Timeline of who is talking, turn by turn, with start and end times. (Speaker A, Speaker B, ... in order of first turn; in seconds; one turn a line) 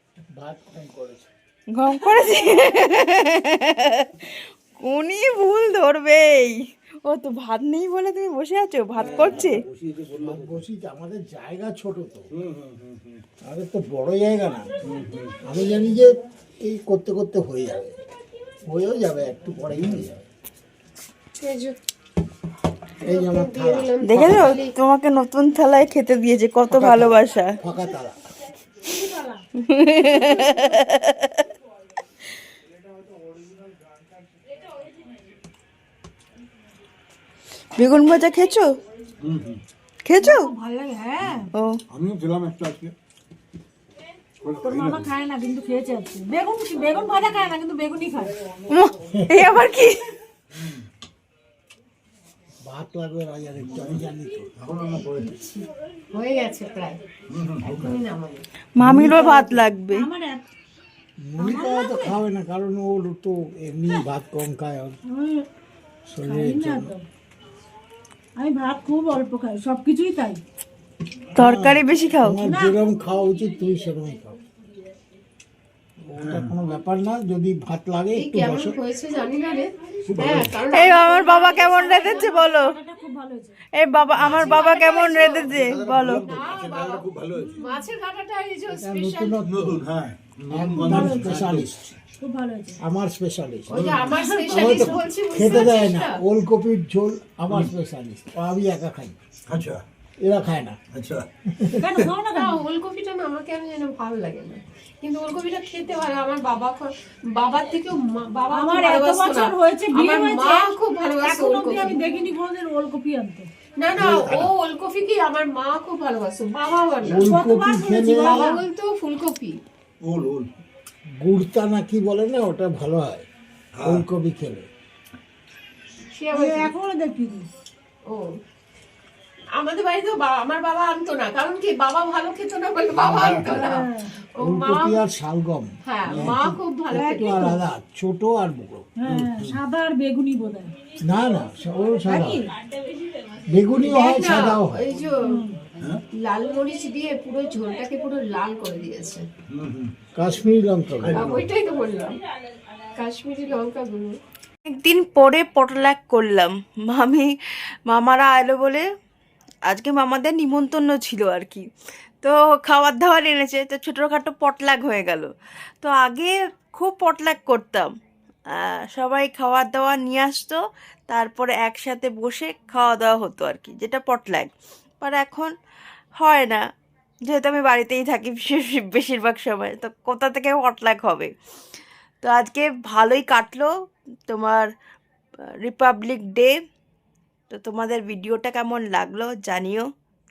Speaker A: 0.4-1.3
Speaker B: 1.7-9.6
Speaker C: 9.0-10.7
Speaker A: 9.0-12.3
Speaker C: 12.3-13.2
Speaker A: 13.4-14.7
Speaker C: 14.8-15.4
Speaker A: 15.4-18.0
Speaker A: 18.6-20.2
Speaker C: 19.7-20.1
Speaker D: 21.4-21.8
Speaker A: 23.0-24.5
Speaker D: 23.0-24.7
Speaker B: 24.0-27.6
Speaker A: 26.7-28.2
Speaker E: 28.8-29.4
Speaker B: 29.6-31.4
Speaker B: 37.8-38.7
Speaker C: 39.2-39.6
Speaker B: 40.0-40.5
Speaker E: 40.2-41.5
Speaker C: 41.9-42.9
Speaker C: 44.4-45.1
Speaker E: 44.6-48.4
Speaker B: 48.7-50.1
Speaker A: 49.1-49.4
Speaker C: 50.5-50.9
Speaker A: 52.6-54.5
Speaker C: 53.6-55.4
Speaker D: 56.1-57.0
Speaker C: 57.3-58.0
Speaker D: 57.6-58.5
Speaker B: 58.8-60.1
Speaker A: 58.8-59.3
Speaker E: 59.2-60.4
Speaker A: 61.2-65.0
Speaker E: 61.4-62.2
Speaker E: 65.1-65.5
Speaker A: 66.1-66.9
Speaker E: 66.2-67.0
Speaker E: 68.4-70.4
Speaker A: 71.3-74.4
Speaker B: 71.4-72.4
Speaker E: 72.5-72.8
Speaker A: 76.0-78.8
Speaker C: 76.2-76.5
Speaker D: 78.2-82.3
Speaker C: 80.1-80.6
Speaker B: 80.7-82.7
Speaker E: 81.6-83.5
Speaker B: 83.8-86.3
Speaker C: 84.2-84.6
Speaker D: 84.3-85.6
Speaker C: 85.5-87.6
Speaker D: 86.1-87.0
Speaker E: 87.3-87.9
Speaker D: 87.6-89.4
Speaker A: 88.8-89.8
Speaker C: 89.4-91.7
Speaker A: 90.5-91.9
Speaker E: 90.8-91.4
Speaker E: 92.2-92.8
Speaker A: 92.8-93.9
Speaker D: 93.7-96.2
Speaker C: 93.7-94.2
Speaker E: 94.1-95.0
Speaker A: 94.5-99.2
Speaker C: 99.5-99.8
Speaker A: 100.2-100.8
Speaker C: 100.9-101.3
Speaker A: 101.5-101.9
Speaker E: 101.8-102.6
Speaker D: 102.3-112.0
Speaker E: 108.5-113.5
Speaker D: 113.8-117.3
Speaker C: 114.0-114.5
Speaker A: 117.0-118.4
Speaker E: 117.1-118.6
Speaker D: 118.0-119.6
Speaker C: 120.0-120.5
Speaker A: 121.2-123.3
Speaker C: 123.8-124.1
Speaker A: 123.8-124.7
Speaker D: 126.1-126.7
Speaker E: 126.3-127.5
Speaker D: 129.5-133.9
Speaker C: 133.0-133.5
Speaker E: 133.4-134.1
Speaker D: 134.4-135.0
Speaker A: 134.4-138.9
Speaker D: 135.9-137.6
Speaker C: 136.1-136.4
Speaker E: 139.0-140.7
Speaker C: 139.1-139.6
Speaker A: 141.0-142.5
Speaker A: 143.4-144.9
Speaker D: 143.8-145.4
Speaker E: 145.2-145.6
Speaker D: 146.2-149.3
Speaker C: 149.5-149.9
Speaker A: 150.2-151.3
Speaker C: 151.0-151.5
Speaker D: 151.1-152.2
Speaker D: 153.0-154.1
Speaker B: 154.7-158.8
Speaker B: 159.7-161.7
Speaker B: 162.2-165.3
Speaker B: 165.8-167.9
Speaker B: 168.5-175.5
Speaker B: 176.2-176.6
Speaker B: 177.3-181.3
Speaker B: 182.2-183.7
Speaker B: 184.3-184.7
Speaker B: 185.6-186.6
Speaker B: 187.5-189.8